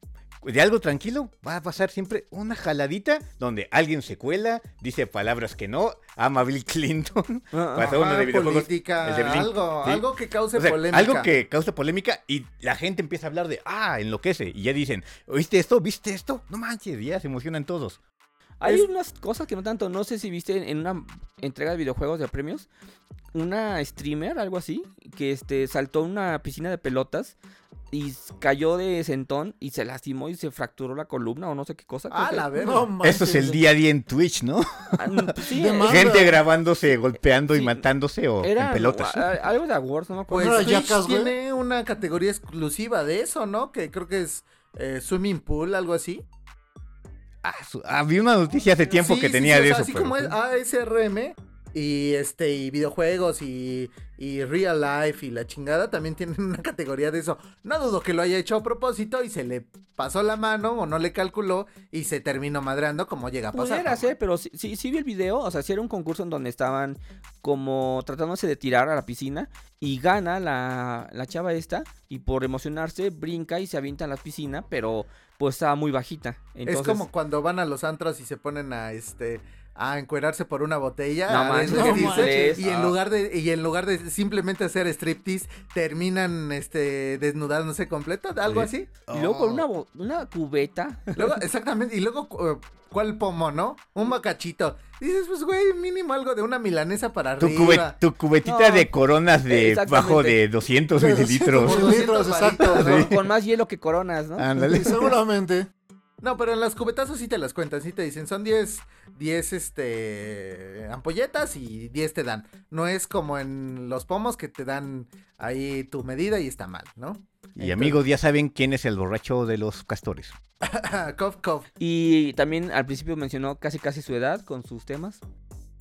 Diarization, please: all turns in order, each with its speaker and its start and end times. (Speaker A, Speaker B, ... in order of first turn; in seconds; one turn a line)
Speaker A: 0.4-18.0
Speaker B: 7.5-7.9
Speaker C: 7.8-11.3
Speaker B: 18.6-22.7
Speaker B: 23.3-27.4
Speaker B: 27.9-32.5
Speaker C: 32.1-32.9
Speaker D: 32.6-33.5
Speaker A: 33.0-39.4
Speaker B: 35.0-36.1
Speaker D: 35.5-36.4
Speaker B: 37.5-37.8
Speaker B: 38.4-40.8
Speaker C: 40.3-46.2
Speaker D: 40.4-41.3
Speaker A: 47.4-50.4
Speaker C: 48.9-64.1
Speaker B: 63.5-77.0
Speaker C: 76.7-88.9
Speaker B: 81.3-82.9
Speaker D: 81.6-82.6
Speaker A: 82.6-82.9
Speaker A: 88.5-89.7
Speaker B: 89.1-91.3
Speaker C: 91.1-98.0
Speaker A: 97.4-102.0
Speaker B: 98.4-98.9
Speaker B: 99.5-100.4
Speaker D: 101.0-102.8
Speaker C: 101.5-103.1
Speaker A: 102.6-103.2
Speaker B: 102.7-104.5
Speaker A: 104.4-105.1
Speaker D: 104.5-105.7
Speaker C: 106.2-118.0
Speaker A: 117.6-120.3
Speaker C: 120.6-121.7
Speaker B: 121.8-125.2